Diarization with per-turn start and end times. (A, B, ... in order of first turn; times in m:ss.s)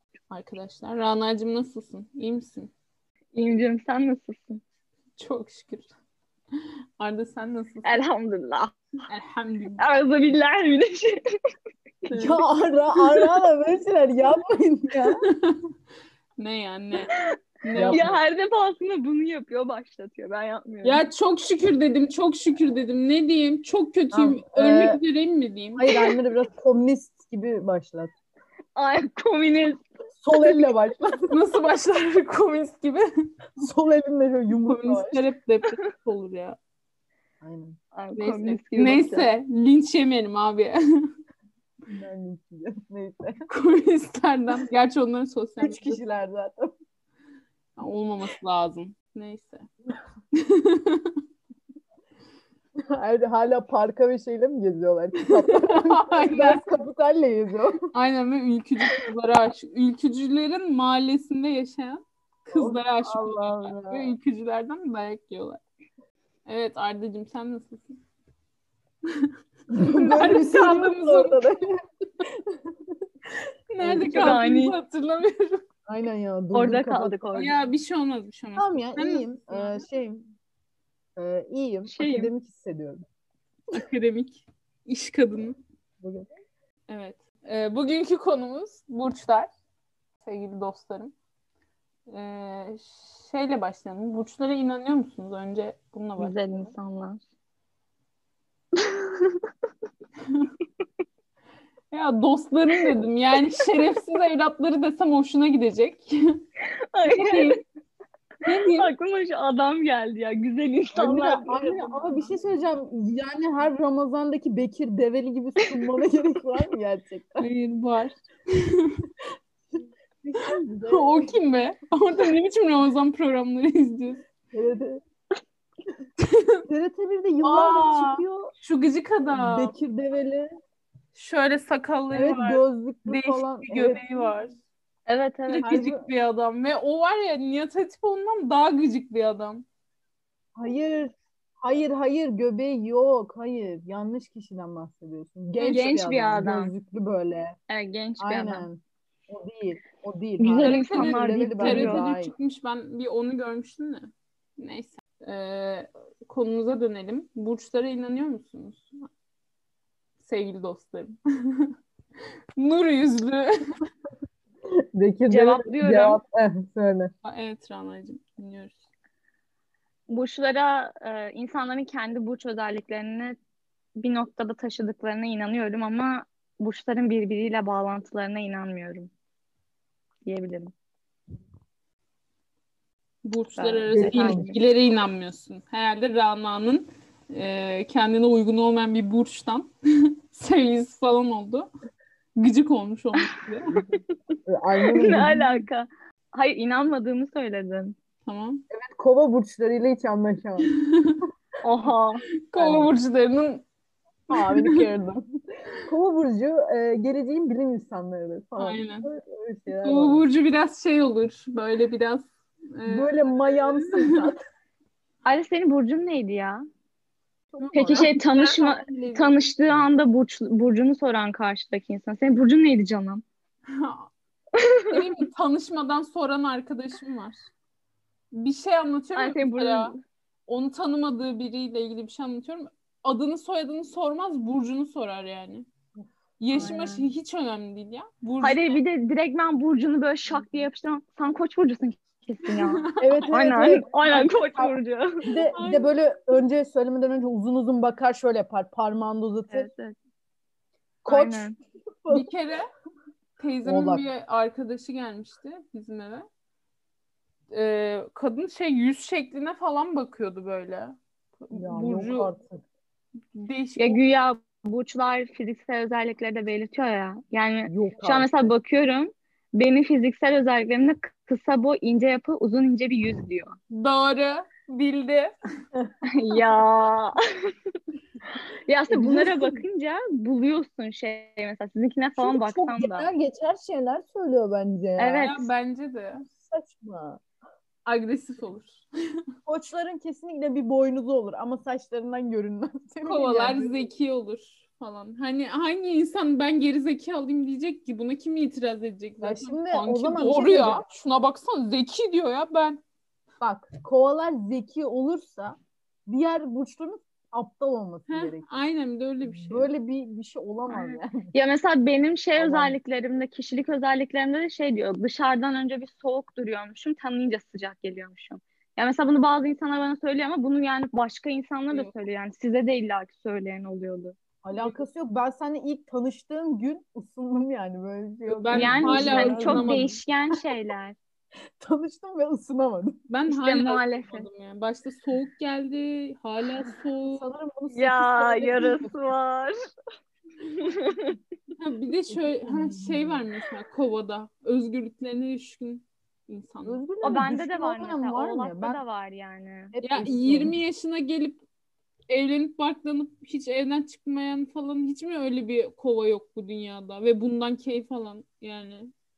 0:00.3-0:02.7 A
0:03.3-0:04.6 B
0:05.2-0:05.9 A
0:07.0-0:08.0 A
0:07.8-0:08.8 B
0:09.1-0:09.8 A
0:09.8-0:11.2 B
0:12.0-0:12.4 B
0:12.2-0:15.2 C
0:15.3-0:15.6 A
0:16.4-0:18.2 A
0:17.7-0:18.1 C
0:17.9-0:21.0 B
0:20.8-0:25.8 A
0:24.1-0:25.0 C
0:25.8-0:28.1 C
0:28.8-0:29.8 B
0:30.2-0:31.3 C
0:31.3-0:33.0 A
0:33.6-0:35.2 C
0:34.6-0:36.6 A
0:37.4-0:37.8 C
0:37.9-0:39.3 B
0:38.2-0:40.8 A
0:41.9-0:43.4 C
0:43.5-0:46.0 A
0:45.6-0:46.7 C
0:47.8-0:49.7 A
0:50.4-0:51.1 A
0:52.9-0:57.8 C
0:55.6-0:56.6 A
0:57.9-1:05.6 A
1:02.5-1:04.1 C
1:06.5-1:08.0 A
1:09.7-1:11.7 C
1:10.0-1:11.4 A
1:13.7-1:15.6 A
1:13.8-1:14.4 C
1:14.1-1:14.8 B
1:15.9-1:17.6 C
1:16.5-1:17.5 B
1:17.4-1:19.8 A
1:18.6-1:20.3 C
1:21.2-1:23.0 C
1:21.9-1:22.3 B
1:23.8-1:25.6 A
1:26.0-1:26.3 C
1:26.9-1:29.5 A
1:30.2-1:31.1 A
1:32.1-1:36.7 A
1:36.2-1:37.2 B
1:38.8-1:39.4 B
1:41.9-1:46.3 A
1:46.9-1:47.6 B
1:47.1-1:47.6 A
1:48.4-1:48.9 A
1:48.8-1:52.2 B
1:50.9-1:57.5 C
1:57.4-1:58.9 A
2:00.2-2:01.4 C
2:00.9-2:04.2 A
2:04.5-2:05.0 C
2:06.2-2:06.6 A
2:06.7-2:08.5 C
2:07.4-2:09.8 A
2:09.3-2:10.5 C
2:11.1-2:14.6 A
2:12.1-2:14.3 C
2:15.1-2:15.7 B
2:15.5-2:19.6 A
2:15.6-2:16.1 C
2:20.6-2:27.6 C
2:25.6-2:26.7 B
2:27.7-2:28.7 B
2:28.2-2:32.3 C
2:30.4-2:32.1 B
2:30.6-2:39.0 A
2:40.2-2:41.7 A
2:42.6-2:43.5 A
2:45.0-2:47.1 C
2:45.3-2:46.2 B
2:47.2-2:48.8 A
2:50.1-2:53.4 B
2:54.0-2:59.1 B
3:00.2-3:00.7 B
3:03.2-3:09.7 A
3:03.6-3:04.6 B
3:03.9-3:04.5 C
3:10.3-3:11.7 A
3:12.4-3:14.0 A
3:14.5-3:15.6 C
3:15.0-3:18.0 B
3:18.2-3:18.6 A
3:18.7-3:20.7 C
3:20.7-3:21.2 A
3:21.6-3:22.2 B
3:22.5-3:23.6 A
3:22.6-3:22.9 C
3:24.3-3:25.3 C
3:24.3-3:24.8 A
3:25.8-3:30.2 C
3:28.6-3:29.0 A
3:29.8-3:33.2 A
3:32.8-3:34.4 C
3:33.8-3:34.2 A
3:35.2-3:36.6 B
3:37.5-3:38.1 C
3:37.6-3:39.4 A
3:37.8-3:43.2 B
3:43.7-3:44.1 A
3:44.9-3:47.5 A
3:48.3-3:49.9 A
3:49.2-3:50.0 B
3:50.5-3:55.7 A
3:56.4-3:58.8 A
3:56.5-3:57.1 B
3:58.4-4:05.2 B
4:02.5-4:03.2 A
4:03.0-4:04.7 C
4:05.3-4:09.7 C
4:05.4-4:06.0 A
4:09.5-4:10.0 B
4:11.0-4:11.5 C
4:11.1-4:11.6 B
4:12.0-4:12.3 C
4:12.1-4:12.7 A
4:13.4-4:16.3 A
4:13.6-4:14.1 C
4:17.5-4:22.3 A
4:21.5-4:22.6 C
4:23.4-4:24.0 A
4:23.8-4:33.5 B
4:27.7-4:28.3 C
4:33.7-4:35.3 A
4:36.1-4:37.1 B
4:38.7-4:43.1 B
4:38.9-4:39.6 C
4:42.2-4:45.3 C
4:45.0-4:45.5 B
4:45.2-4:46.3 A
4:46.4-4:47.2 C
4:47.8-4:48.8 A
4:49.5-4:53.7 C
4:53.1-5:02.8 A
4:59.2-5:00.8 C
5:03.4-5:05.6 C
5:06.1-5:08.4 C
5:08.1-5:09.7 A
5:09.3-5:11.3 C
5:10.7-5:24.2 B
5:12.4-5:12.8 C
5:24.4-5:29.7 C
5:28.3-5:30.0 A
5:28.5-5:31.0 B
5:31.6-5:33.0 C
5:33.1-5:37.2 A
5:33.3-5:34.3 B
5:37.1-5:39.2 C
5:37.7-5:39.5 B
5:40.6-5:41.2 B
5:41.6-5:46.8 A
5:42.1-5:43.2 C
5:46.6-5:48.8 C
5:47.0-5:49.8 B
5:49.7-5:50.6 C
5:49.8-5:51.4 A
5:52.1-5:58.9 A